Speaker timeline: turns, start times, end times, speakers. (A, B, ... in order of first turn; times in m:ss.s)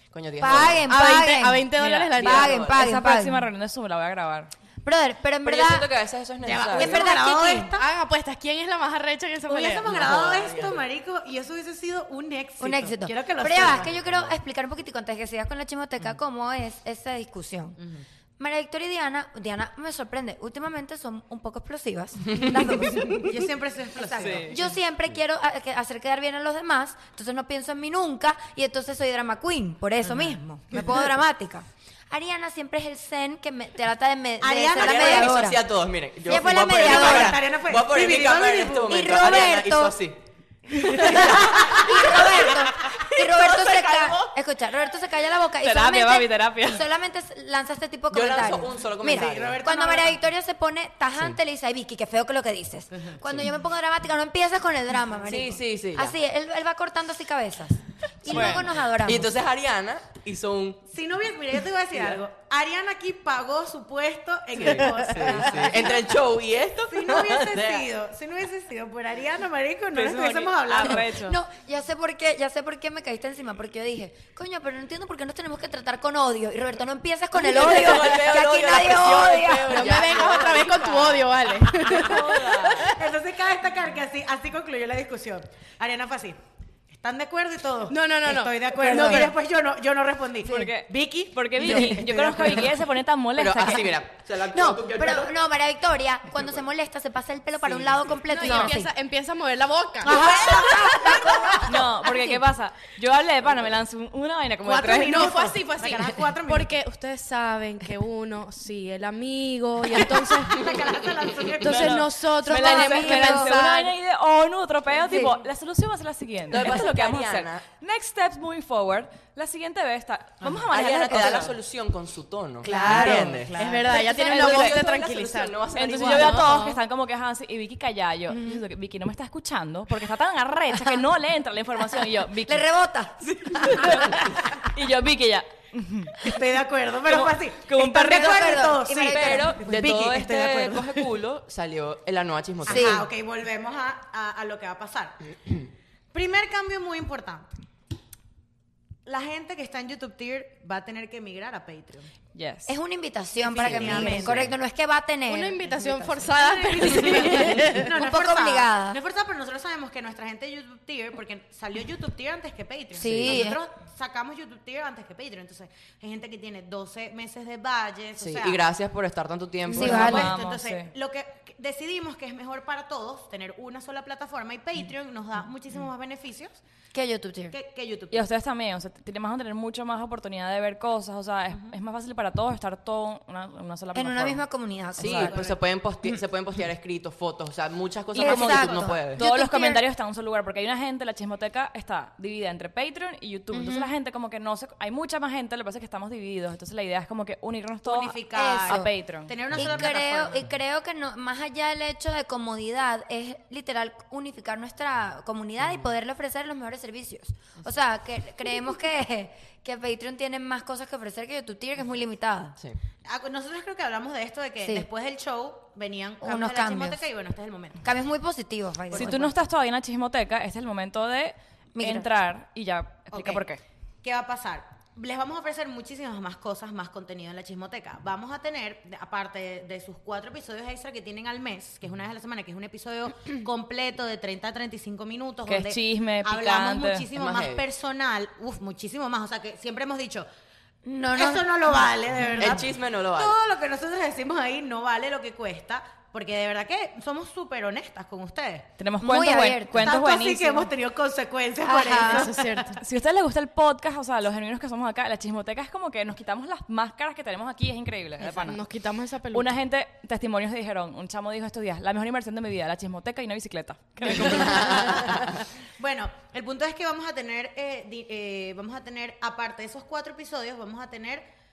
0:00.1-0:00.9 A
0:00.4-0:03.5 B
0:00.8-0:02.7 C
0:01.8-0:02.2 D
0:02.2-0:02.9 A
0:02.7-0:04.5 D
0:04.8-0:05.9 B
0:05.4-0:07.1 A
0:06.4-0:07.9 E
0:06.7-0:07.7 B
0:07.8-0:09.9 C
0:09.4-0:14.0 E
0:09.8-0:10.8 A
0:12.6-0:17.8 B
0:13.6-0:14.4 A
0:17.8-0:18.0 E
0:18.4-0:35.6 B
0:22.3-0:23.1 A
0:23.2-0:24.6 E
0:24.1-0:24.6 A
0:30.0-0:30.4 E
0:34.4-0:35.4 E
0:34.8-0:40.2 A
0:36.2-0:37.4 B
0:36.7-0:39.6 E
0:38.8-0:40.0 B
0:40.7-0:44.3 A
0:41.0-0:59.3 B
0:41.5-0:41.9 E
0:45.6-0:46.8 D
0:48.1-0:49.6 A
0:49.0-0:50.2 E
0:53.2-0:53.5 A
0:55.3-0:56.2 A
0:58.2-0:58.7 D
0:58.3-1:00.8 A
1:00.9-1:06.0 E
1:04.6-1:07.8 A
1:06.9-1:11.1 E
1:09.9-1:11.4 D
1:11.1-1:21.0 B
1:17.3-1:21.2 A
1:19.6-1:23.0 C
1:21.9-1:22.1 A
1:21.9-1:22.9 D
1:22.8-1:32.8 E
1:27.9-1:29.3 C
1:28.8-1:29.3 B
1:30.4-1:34.0 D
1:33.4-1:35.3 A
1:34.4-1:38.9 B
1:37.6-1:38.0 A
1:38.3-1:41.4 C
1:38.4-1:38.7 D
1:40.0-1:41.7 E
1:40.0-1:42.4 B
1:41.6-1:45.3 D
1:44.6-1:46.7 E
1:44.9-1:50.7 C
1:50.4-1:52.1 E
1:51.6-1:53.9 C
1:51.6-2:01.5 D
1:52.5-1:53.5 B
1:55.1-1:55.3 C
1:56.5-1:57.6 A
2:00.6-2:06.6 A
2:02.6-2:04.0 E
2:02.6-2:03.3 B
2:02.8-2:06.7 C
2:04.1-2:04.9 D
2:05.7-2:12.7 D
2:10.7-2:11.0 B
2:12.4-2:14.5 B
2:13.4-2:14.0 A
2:13.5-2:16.3 D
2:16.2-2:21.1 E
2:17.0-2:18.7 D
2:18.0-2:19.6 B
2:19.0-2:23.0 A
2:22.6-2:23.1 B
2:22.6-2:25.2 E
2:26.1-2:27.5 E
2:29.0-2:32.1 E
2:32.3-2:32.8 D
2:32.7-2:36.2 B
2:33.4-2:34.5 E
2:33.6-2:34.5 A
2:35.3-2:37.9 C
2:36.3-2:48.6 E
2:37.7-2:39.0 B
2:42.9-2:43.6 B
2:48.2-2:50.3 A
2:49.7-2:50.3 B
2:49.7-2:50.9 D
2:49.7-2:56.6 E
2:56.9-2:57.5 B
2:57.5-2:58.3 E
2:58.1-3:04.4 D
3:03.9-3:05.5 B
3:05.0-3:05.3 D
3:05.0-3:09.2 A
3:05.2-3:05.6 E
3:08.1-3:19.3 D
3:08.2-3:09.8 B
3:13.5-3:13.9 B
3:17.8-3:20.5 E
3:18.3-3:18.9 B
3:19.5-3:32.6 B
3:33.0-3:37.8 E
3:36.2-3:37.0 B
3:37.8-3:39.3 B
3:38.9-3:39.3 E
3:38.9-3:43.6 D
3:41.7-3:42.0 B
3:43.1-3:43.5 E
3:44.0-4:00.3 E
3:55.5-3:57.1 D
3:57.1-3:57.6 A
4:00.8-4:01.5 B
4:01.1-4:08.7 E
4:02.2-4:02.6 B
4:02.4-4:03.3 A
4:08.8-4:10.7 D
4:09.0-4:10.0 B
4:09.8-4:12.8 E
4:11.6-4:12.3 B
4:12.0-4:12.8 C
4:12.8-4:18.6 D
4:18.4-4:19.5 C
4:19.3-4:25.2 D
4:24.1-4:31.2 E
4:24.3-4:24.9 A